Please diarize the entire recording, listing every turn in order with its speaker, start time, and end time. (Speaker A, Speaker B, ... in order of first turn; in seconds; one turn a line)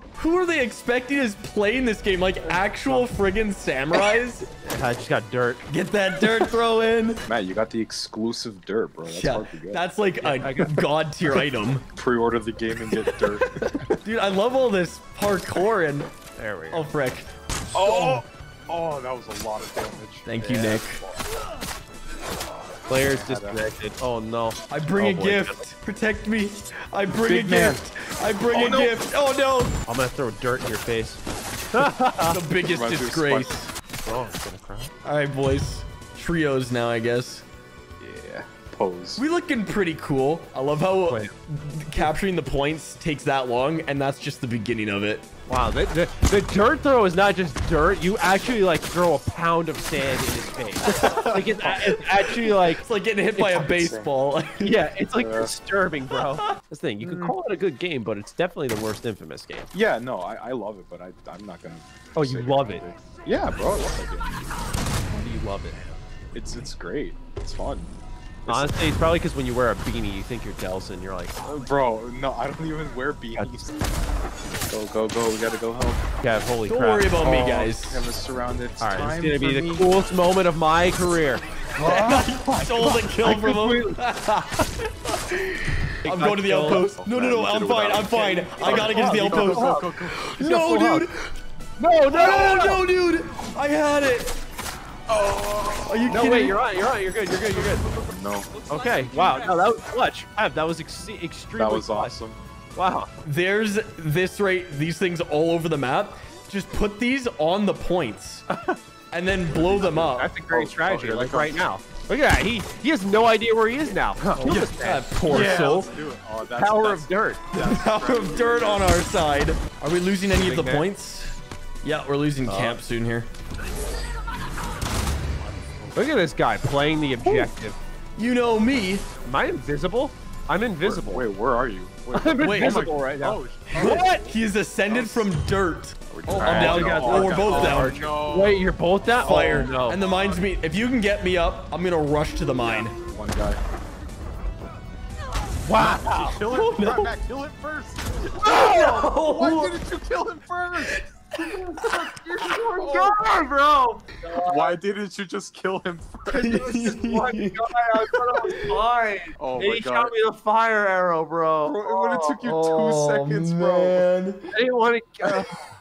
Speaker A: 0.1-4.5
Speaker B: 2.4-3.1
Speaker B: 4.6-5.6
Speaker A: 5.7-7.2
Speaker C: 7.2-9.8
Speaker A: 9.1-11.8
Speaker B: 10.2-10.7
Speaker C: 11.3-13.7
Speaker A: 12.9-16.1
Speaker B: 16.4-16.9
Speaker A: 16.7-17.3
Speaker C: 17.7-21.2
Speaker A: 17.8-18.2
Speaker A: 20.2-21.0
Speaker B: 22.9-25.6
Speaker C: 22.9-23.6
Speaker A: 24.7-29.7
Speaker C: 27.1-27.8
Speaker C: 28.5-28.9
Speaker B: 29.9-31.2
Speaker B: 31.7-32.4
Speaker A: 32.3-33.7
Speaker C: 32.6-33.6
Speaker B: 34.0-34.9
Speaker A: 35.0-37.4
Speaker C: 38.0-39.2
Speaker A: 39.1-45.2
Speaker B: 45.5-52.8
Speaker A: 50.9-52.0
Speaker A: 52.6-54.8
Speaker B: 53.4-53.6
Speaker C: 53.5-54.1
Speaker B: 54.6-59.7
Speaker C: 55.2-55.5
Speaker C: 57.0-57.4
Speaker C: 59.7-64.3
Speaker B: 62.1-62.9
Speaker B: 65.1-65.8
Speaker C: 66.3-67.9
Speaker C: 68.4-68.8
Speaker B: 68.5-71.6
Speaker C: 71.4-73.8
Speaker B: 73.4-73.6
Speaker C: 74.7-76.0
Speaker B: 76.2-77.2
Speaker A: 76.7-78.1
Speaker C: 77.2-79.9
Speaker B: 78.8-81.4
Speaker C: 81.8-83.0
Speaker A: 81.8-91.3
Speaker B: 82.8-84.0
Speaker B: 86.0-86.8
Speaker C: 86.7-90.2
Speaker B: 88.6-91.1
Speaker B: 91.8-92.8
Speaker A: 92.1-94.4
Speaker C: 95.1-96.3
Speaker A: 95.9-96.6
Speaker B: 96.1-97.9
Speaker C: 98.0-98.5
Speaker B: 98.7-102.2
Speaker C: 101.6-102.4
Speaker B: 102.8-103.1
Speaker A: 103.2-108.5
Speaker A: 109.1-110.3
Speaker C: 109.5-111.7
Speaker B: 110.0-115.1
Speaker C: 114.2-119.0
Speaker A: 114.4-115.9
Speaker B: 116.5-117.4
Speaker A: 117.5-123.3
Speaker B: 120.3-120.8
Speaker B: 122.5-122.8
Speaker B: 125.9-127.8
Speaker A: 128.2-129.1
Speaker B: 129.2-131.2
Speaker C: 130.8-135.3
Speaker B: 132.1-134.2
Speaker A: 132.4-132.9
Speaker A: 133.7-138.1
Speaker C: 136.1-140.2
Speaker B: 136.4-140.0
Speaker A: 139.2-142.9
Speaker C: 142.6-143.6
Speaker B: 145.6-146.4
Speaker C: 145.8-151.0
Speaker A: 146.5-147.1
Speaker A: 148.3-149.8
Speaker B: 148.5-149.1
Speaker A: 150.7-152.5
Speaker C: 151.9-153.2
Speaker B: 152.3-154.8
Speaker C: 154.3-156.7
Speaker A: 156.3-157.6
Speaker B: 156.4-162.4
Speaker A: 158.1-158.7
Speaker C: 159.4-160.1
Speaker C: 161.6-164.1
Speaker A: 162.4-164.4
Speaker B: 164.5-165.5